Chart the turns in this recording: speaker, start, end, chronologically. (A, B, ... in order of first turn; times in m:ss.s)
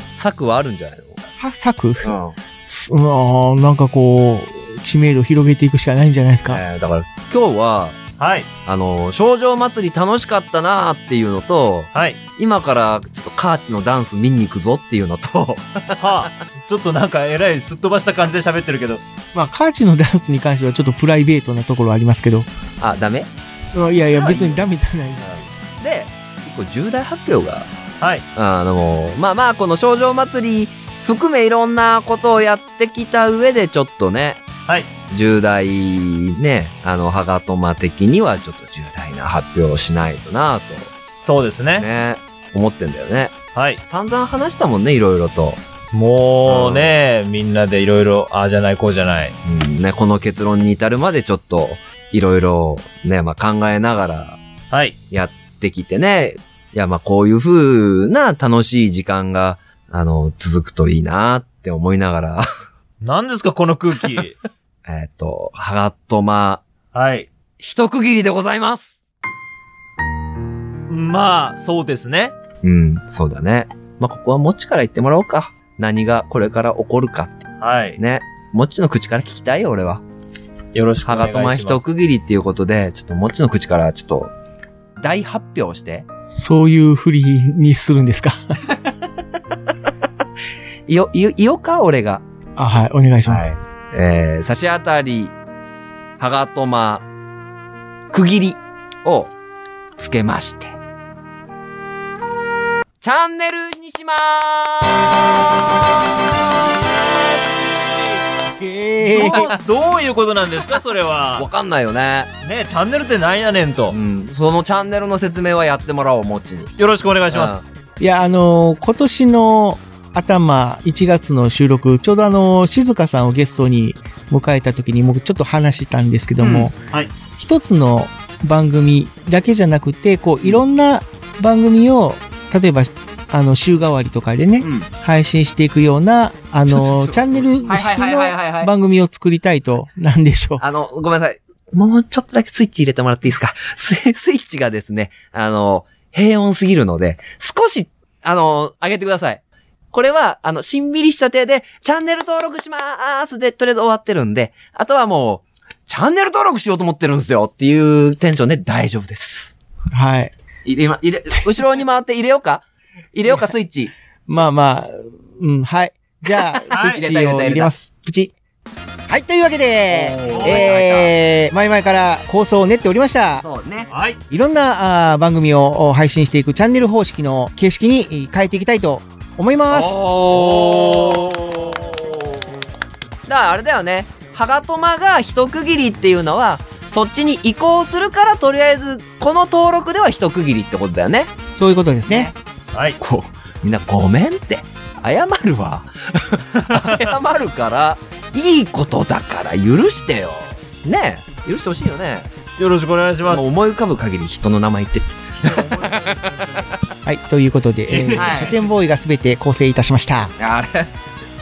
0:00.2-0:01.2 A
0:01.4-0:02.1 B
0:02.0-0:02.4 A
0:02.7-0:06.6 B
0:06.5-0:08.0 A
0:08.2-0:08.5 C
0:08.7-0:16.3 A
0:11.9-0:12.2 C
0:16.0-0:19.0 C
0:19.3-0:22.5 B
0:22.8-0:23.3 A
0:23.7-0:25.5 B
0:24.1-0:24.7 A
0:25.2-0:27.7 A
0:28.0-0:28.2 C
0:28.4-0:34.4 A
0:35.1-0:40.9 A
0:41.2-0:41.9 C
0:41.8-0:43.4 A
0:43.6-0:43.8 C
0:43.9-0:45.6 A
0:45.9-0:49.4 C
0:46.4-0:46.9 A
0:49.4-0:54.4 A
0:55.1-1:02.5 A
1:03.0-1:04.4 C
1:04.9-1:06.6 A
1:06.9-1:07.3 C
1:07.6-1:09.0 A
1:10.9-1:12.3 C
1:12.6-1:17.5 A
1:17.6-1:18.0 C
1:18.0-1:20.0 A
1:20.7-1:21.8 C
1:21.0-1:24.3 A
1:25.0-1:26.1 A
1:26.3-1:28.6 B
1:28.7-1:29.0 A
1:30.9-1:32.2 A
1:32.6-1:33.5 B
1:33.3-1:35.3 A
1:36.2-1:37.1 A
1:38.1-1:39.3 A
1:40.0-1:40.8 A
1:43.0-1:47.4 A
1:48.4-1:49.5 B
1:49.0-1:51.5 C
1:49.2-1:49.6 A
1:51.4-1:52.3 A
1:52.4-1:54.0 C
1:53.9-1:56.7 A
1:56.8-1:57.6 C
1:57.3-1:57.6 A
1:58.0-2:06.7 B
2:06.4-2:06.7 A
2:07.4-2:20.6 B
2:14.6-2:14.9 A
2:16.7-2:18.7 A
2:20.6-2:29.4 A
2:29.9-2:39.6 A
2:39.9-2:40.3 B
2:40.6-2:43.9 A
2:44.3-2:48.4 B
2:46.7-2:47.7 A
2:46.7-2:47.0 C
2:49.1-2:53.4 B
2:49.9-2:51.1 A
2:50.3-2:50.8 C
2:53.4-2:53.9 A
2:53.9-2:54.2 C
2:54.3-3:00.0 B
2:59.7-3:02.6 A
3:03.3-3:11.3 A
3:11.6-3:12.3 B
3:12.1-3:12.4 A
3:13.0-3:22.3 A
3:16.6-3:17.0 C
3:22.6-3:23.6 C
3:23.3-3:26.8 A
3:25.7-3:26.2 C
3:27.0-3:30.3 B
3:27.9-3:28.7 C
3:28.2-3:28.5 A
3:30.4-3:30.9 A